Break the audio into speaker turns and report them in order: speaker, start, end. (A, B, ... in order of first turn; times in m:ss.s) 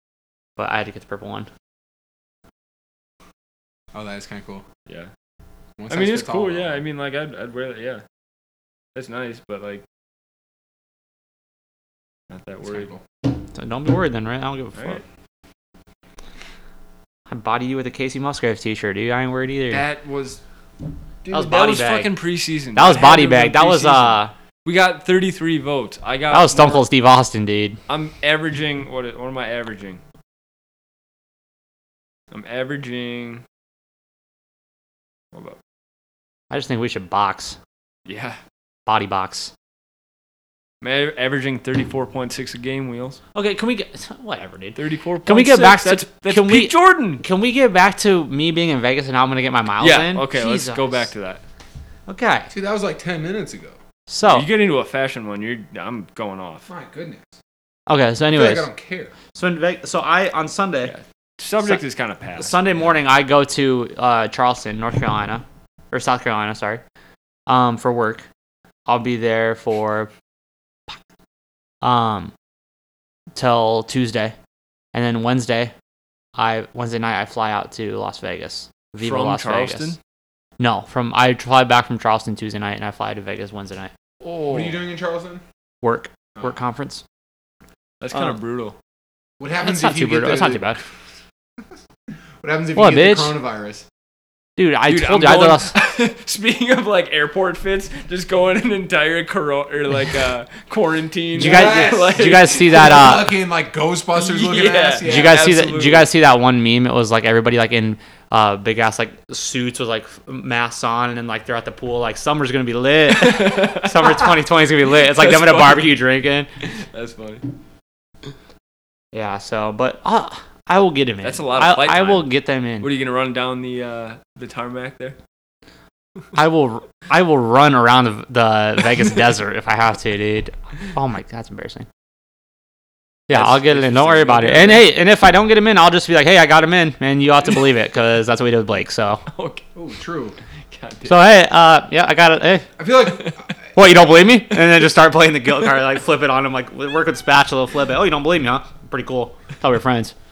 0:00.6-0:01.5 A
0:03.9-0:04.6 B
0:05.8-0:06.8 B
0:05.9-0:08.0 C
0:09.0-0:09.8 C
0:12.3-0:12.9 C
0:12.6-0:13.0 B
0:13.5-0:15.0 A
0:14.8-0:15.0 C
0:17.3-0:19.8 A
0:19.7-0:20.4 C
0:21.2-0:26.9 C
0:21.3-0:22.1 A
0:22.8-0:24.3 A
0:26.3-0:27.8 A
0:27.9-0:30.0 C
0:32.3-0:33.4 C
0:35.3-0:35.6 C
0:36.5-0:37.6 A
0:38.1-0:38.4 C
0:38.9-0:39.5 A
0:40.8-0:43.2 C
0:43.4-0:51.1 A
0:44.8-0:47.2 C
0:49.8-0:51.4 C
0:52.1-0:52.5 A
0:52.5-0:53.8 B
0:54.1-0:54.5 A
0:54.2-0:56.7 C
0:56.7-0:57.4 B
0:57.9-0:58.7 A
0:58.3-0:59.1 B
0:59.3-1:00.9 A
1:00.8-1:02.9 C
1:02.4-1:06.8 A
1:07.5-1:08.3 A
1:08.9-1:10.1 A
1:11.8-1:12.3 A
1:13.4-1:14.4 A
1:14.9-1:15.7 A
1:16.4-1:20.0 A
1:19.0-1:20.0 C
1:20.6-1:23.9 A
1:24.2-1:24.8 C
1:24.5-1:25.4 B
1:25.8-1:27.0 A
1:28.0-1:28.8 C
1:28.1-1:28.4 A
1:29.4-1:30.8 B
1:29.6-1:30.8 A
1:32.4-1:33.9 B
1:32.8-1:33.4 A
1:34.6-1:35.7 A
1:34.9-1:43.0 C
1:41.4-1:45.5 B
1:41.4-1:43.3 A
1:44.2-1:46.1 C
1:45.0-1:56.5 A
1:53.1-1:54.3 C
1:54.9-1:56.0 C
1:56.6-1:57.5 C
1:59.1-2:02.9 A
2:01.2-2:05.2 C
2:06.3-2:11.9 A
2:13.3-2:19.2 A
2:13.3-2:15.0 C
2:19.3-2:19.6 C
2:19.8-2:20.4 B
2:20.7-2:21.3 C
2:21.1-2:22.7 A
2:22.8-2:23.5 B
2:23.8-2:30.1 A